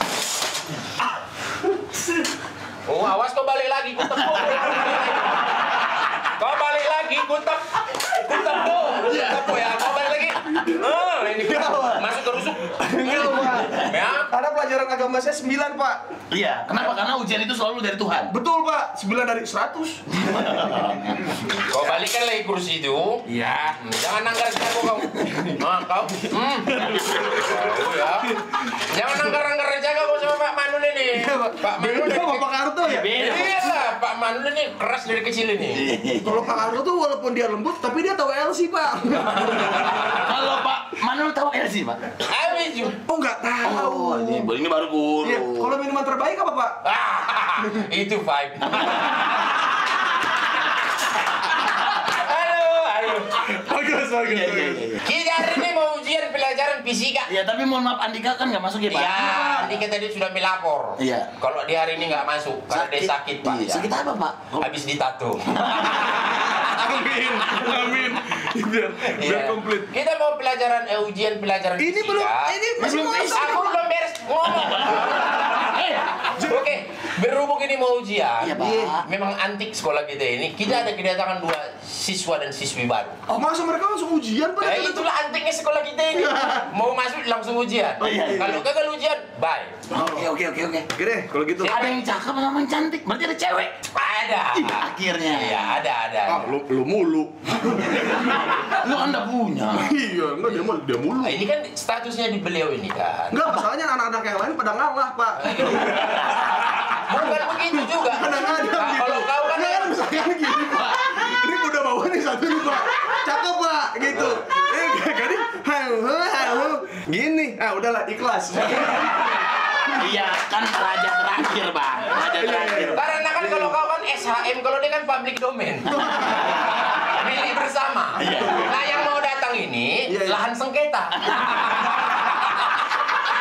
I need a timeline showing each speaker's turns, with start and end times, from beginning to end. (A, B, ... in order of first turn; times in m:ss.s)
0:02.9-0:14.3 A
0:09.0-0:09.6 B
0:11.3-0:12.2 C
0:12.7-0:16.0 C
0:16.3-0:18.3 B
0:18.3-0:20.0 C
0:20.1-0:21.8 B
0:21.7-0:36.0 A
0:31.6-0:33.5 C
0:32.9-0:33.7 B
0:35.7-0:36.4 B
0:36.2-0:40.1 C
0:39.3-0:40.2 A
0:40.2-0:42.2 B
0:42.3-0:43.0 A
0:43.1-0:44.5 C
0:43.6-0:45.7 B
0:45.2-0:46.8 C
0:46.8-0:49.5 A
0:48.7-0:49.2 B
0:52.0-0:53.4 A
0:53.4-0:55.0 C
0:54.3-0:55.0 B
0:55.0-0:57.3 A
0:57.3-0:59.5 B
0:58.9-1:03.9 A
1:01.0-1:01.3 B
1:02.7-1:04.7 B
1:04.6-1:06.6 A
1:05.6-1:06.1 B
1:06.5-1:09.9 C
1:09.2-1:15.6 A
1:11.8-1:13.6 C
1:12.8-1:13.7 B
1:14.5-1:16.2 B
1:16.4-1:16.7 C
1:16.4-1:23.2 A
1:18.4-1:19.0 B
1:18.6-1:19.0 C
1:23.3-1:25.0 C
1:24.6-1:29.8 A
1:26.2-1:26.7 C
1:28.0-1:28.6 C
1:28.0-1:28.5 B
1:29.9-1:30.9 B
1:30.9-1:32.0 C
1:31.6-1:33.8 B
1:33.9-1:36.5 A
1:34.6-1:35.6 B
1:36.3-1:38.0 C
1:37.9-1:40.0 B
1:39.8-1:41.4 C
1:41.2-1:43.6 A
1:43.3-1:46.2 C
1:45.4-1:46.2 A
1:45.6-1:46.5 B
1:46.9-1:50.0 A
1:47.9-1:59.1 C
1:50.7-1:51.0 B
1:59.9-2:03.0 B
2:02.2-2:03.7 C
2:02.9-2:12.7 A
2:06.0-2:06.4 C
2:08.2-2:08.6 B
2:10.1-2:10.4 C